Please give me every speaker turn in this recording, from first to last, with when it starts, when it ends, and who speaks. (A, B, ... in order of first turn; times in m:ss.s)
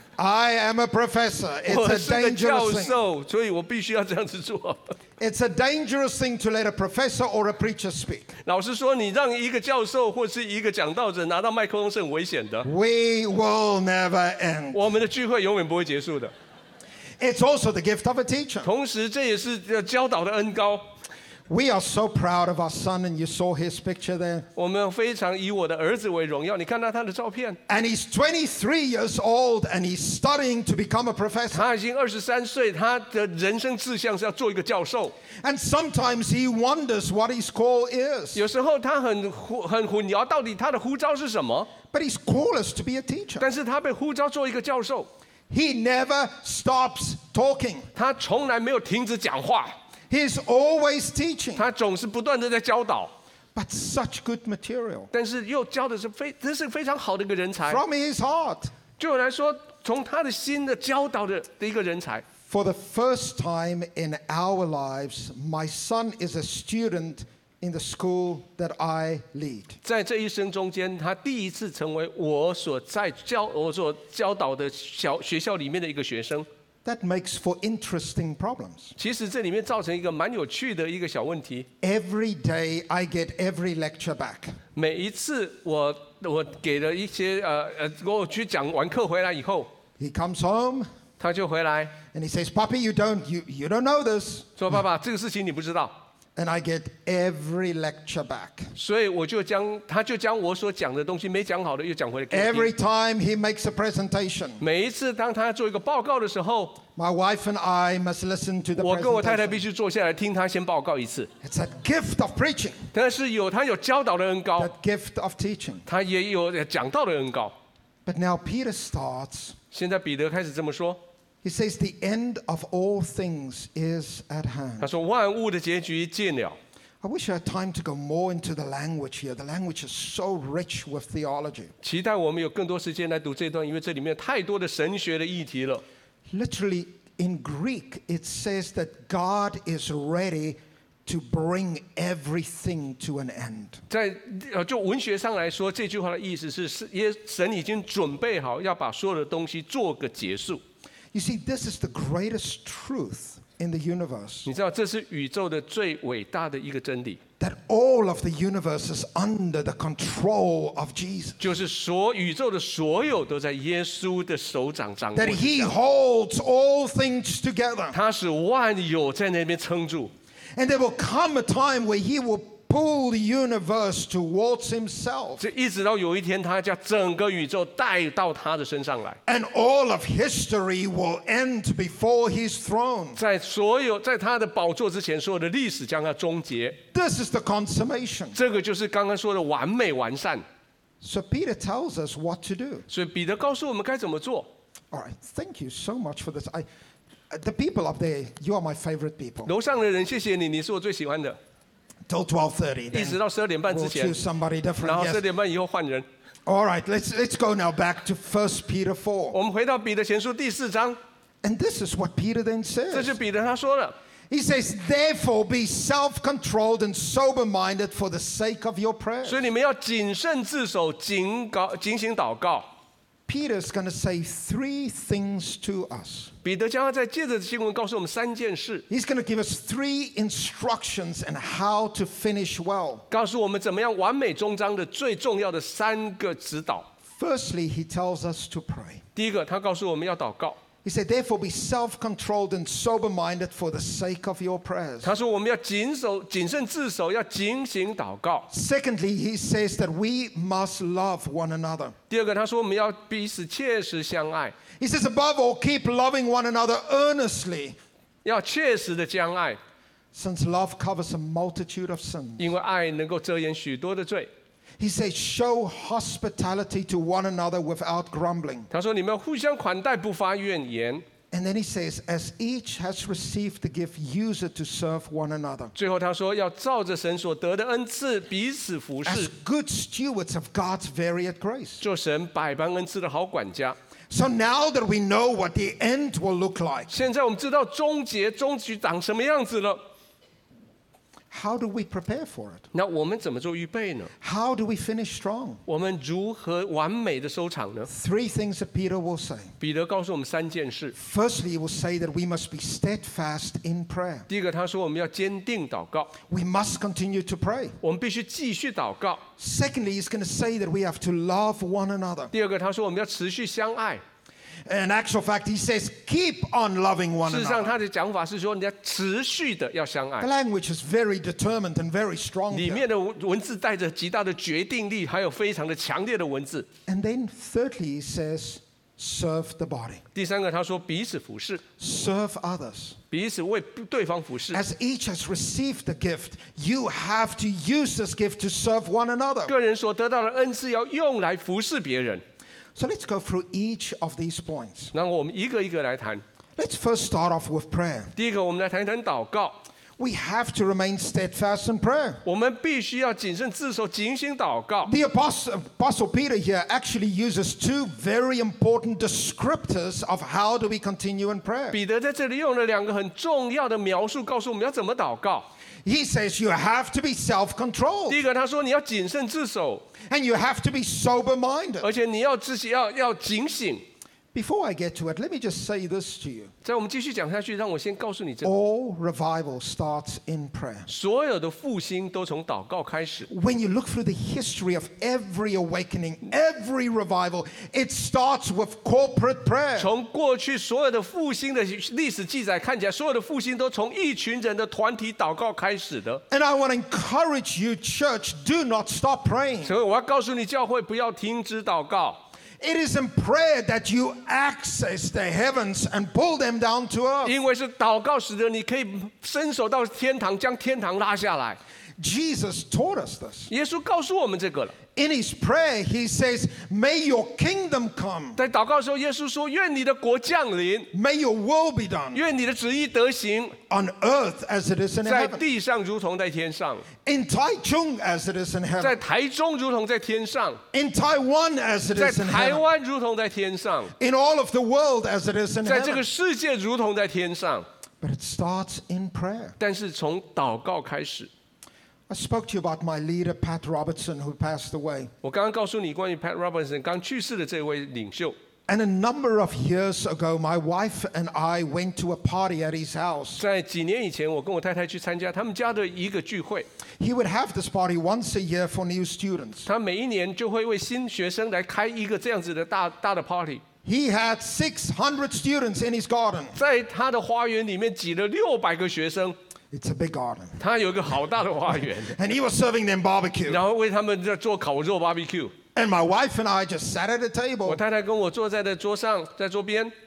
0:00.2-0:03.0 A
0:01.7-0:05.0 B
0:05.2-0:08.3 A
0:08.4-0:12.7 B
0:12.6-0:14.8 A
0:14.7-0:16.3 B
0:17.2-0:18.7 A
0:18.6-0:20.9 B
0:21.5-0:24.5 A
0:24.6-0:27.6 B
0:27.7-0:31.6 A
0:31.5-0:35.2 B
0:35.4-0:38.4 A
0:38.3-0:41.7 B
0:41.9-0:43.5 A
0:43.4-0:45.1 B
0:45.5-0:47.9 A
0:48.0-0:49.8 B
0:50.1-0:51.7 A
0:51.6-0:53.1 B
0:53.5-0:55.1 A
0:55.1-0:57.8 B
0:57.6-0:58.7 A
0:59.0-1:02.2 B
1:02.4-1:09.8 A
1:09.8-1:16.5 B
1:16.8-1:18.9 A
1:19.0-1:21.7 B
1:21.8-1:24.6 A
1:24.8-1:29.7 B
1:30.0-1:30.9 A
1:31.2-1:32.0 B
1:32.1-1:34.6 A
1:34.6-1:36.0 B
1:36.4-1:38.7 A
1:38.8-1:42.7 B
1:42.3-1:44.6 A
1:44.6-1:46.8 B
1:47.0-1:49.6 A
1:48.8-1:51.3 B
1:51.4-1:52.8 A
1:52.9-1:54.7 B
1:54.6-1:55.9 A
1:55.9-1:57.5 B
1:58.0-1:59.6 A
1:59.7-2:01.0 B
2:01.4-2:04.9 A
2:04.8-2:06.6 B
2:07.0-2:11.7 A
2:11.8-2:15.8 B
2:16.3-2:23.8 A
2:23.9-2:30.6 B
2:31.1-2:34.5 A
2:34.4-2:37.2 B
2:37.4-2:41.4 A
2:41.4-2:45.7 B
2:45.1-2:48.0 A
2:47.9-2:50.1 B
2:50.6-2:55.4 A
2:55.4-2:59.2 B
2:59.2-3:03.2 A
3:03.2-3:06.8 B
3:06.9-3:08.4 A
3:08.3-3:10.4 B
3:11.0-3:12.8 A
3:12.9-3:14.5 B
3:14.9-3:16.6 A
3:17.3-3:19.5 A
3:19.4-3:21.4 B
3:22.1-3:25.2 A
3:22.9-3:24.2 B
3:24.8-3:26.1 B
3:26.4-3:29.4 A
3:29.3-3:31.0 B
3:31.4-3:33.2 A
3:32.9-3:34.0 B
3:34.3-3:39.5 A
3:39.2-3:42.7 B
3:43.3-3:46.3 A
3:46.4-3:48.8 B
3:48.9-3:53.0 A
3:53.1-3:56.9 B
3:57.2-3:59.0 A
3:59.2-4:00.6 B
4:00.8-4:05.1 A
4:05.0-4:08.5 B
4:08.5-4:11.9 A
4:12.1-4:14.5 B
4:14.8-4:17.8 A
4:18.2-4:19.6 B
4:20.1-4:22.5 A
4:22.4-4:24.3 B
4:24.8-4:28.7 A
4:28.7-4:31.0 B
4:31.3-4:35.7 A
4:35.8-4:39.3 B
4:39.0-4:41.8 A
4:41.8-4:43.8 B
4:44.1-4:46.9 A
4:46.9-4:49.8 B
4:51.3-4:52.7 A
4:52.7-4:54.1 B
4:54.2-4:55.6 A
4:55.7-4:57.9 B
4:57.9-4:59.5 A
4:59.6-5:00.9 B
5:00.9-5:04.3 A
5:04.3-5:06.1 B
5:06.3-5:07.8 A
5:07.8-5:09.2 B
5:09.4-5:12.3 A
5:12.3-5:14.0 B
5:14.6-5:17.8 A
5:17.2-5:20.3 B
5:20.2-5:22.8 A
5:22.5-5:26.7 B
5:26.9-5:30.0 A
5:30.1-5:31.6 B
5:31.8-5:33.0 A
5:33.1-5:34.6 B
5:34.5-5:39.5 A
5:39.5-5:42.2 B
5:42.8-5:44.9 A
5:44.9-5:46.2 B
5:46.6-5:48.1 A
5:48.2-5:49.6 B
5:50.0-5:52.2 A
5:52.2-5:54.9 B
5:54.8-6:01.8 A
6:01.7-6:05.5 B
6:05.8-6:08.2 A
6:08.1-6:09.8 B
6:10.0-6:11.9 A
6:11.8-6:13.8 B
6:14.3-6:16.5 A
6:16.6-6:18.5 B
6:18.4-6:20.9 A
6:20.9-6:23.3 B
6:23.3-6:29.9 A
6:29.8-6:36.2 B
6:36.3-6:39.8 A
6:39.6-6:42.2 B
6:42.6-6:47.3 A
6:47.2-6:51.6 B
6:52.0-6:53.5 A
6:53.5-6:54.8 B
6:54.9-6:58.4 A
6:58.4-7:00.9 B
7:00.9-7:02.2 A
7:02.1-7:03.6 B
7:03.7-7:05.4 A
7:05.0-7:06.9 B
7:07.0-7:09.0 A
7:08.8-7:10.6 B
7:10.7-7:12.6 A
7:12.0-7:13.9 B
7:14.0-7:16.0 A
7:15.6-7:17.7 B
7:18.0-7:19.6 A
7:19.6-7:21.3 B
7:22.1-7:25.1 A
7:25.2-7:28.4 B
7:28.7-7:33.4 A
7:33.4-7:36.7 B
7:37.0-7:39.7 A
7:39.6-7:43.6 B
7:43.8-7:46.6 A
7:46.6-7:49.4 B
7:49.7-7:50.6 A
7:50.6-7:52.1 B
7:52.0-7:53.6 A
7:53.5-7:55.5 B
7:55.7-7:57.8 A
7:57.6-7:59.9 B